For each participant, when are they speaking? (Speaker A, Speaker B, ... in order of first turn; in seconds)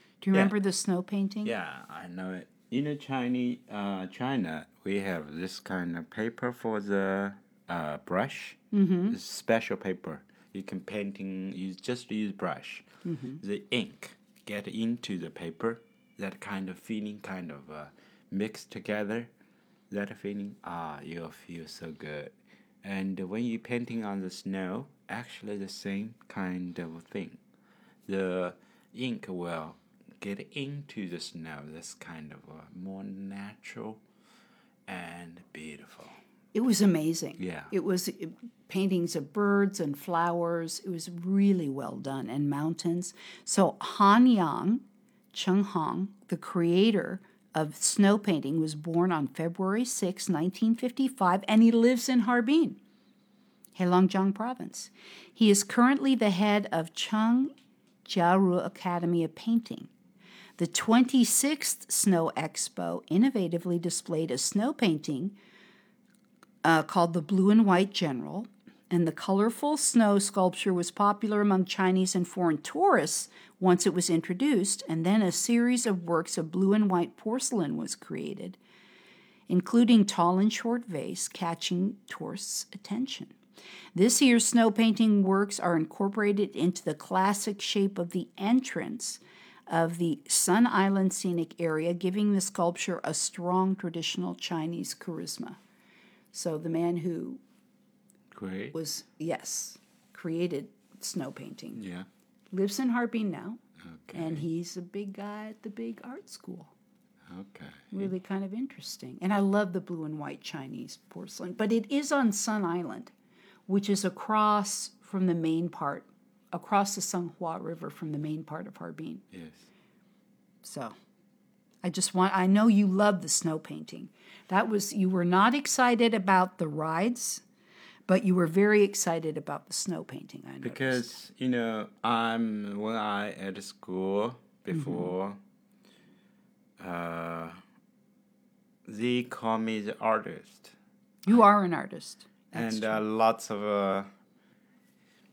Speaker A: 0.2-1.5, 8.7-9.2, 13.0-13.4, 36.5-52.8, 53.8-57.5, 58.0-59.9, 60.6-65.3, 66.6-78.6, 79.5-83.3, 83.9-95.6, 96.3-97.4, 98.7-101.8, 102.5-103.6, 104.1-106.7, 107.9-113.1, 113.7-119.2, 120.6-120.9, 121.8-127.4, 128.1-131.1, 134.7-135.1, 141.2-143.0
Speaker B: 1.4-12.9, 13.4-19.3, 19.9-27.4, 28.1-34.0, 34.9-36.2, 37.4-37.7, 98.3-98.7, 101.8-102.1, 103.8-104.4, 107.3-108.1, 119.3-119.7, 130.6-135.4, 136.8-137.6, 138.8-140.7, 142.5-144.1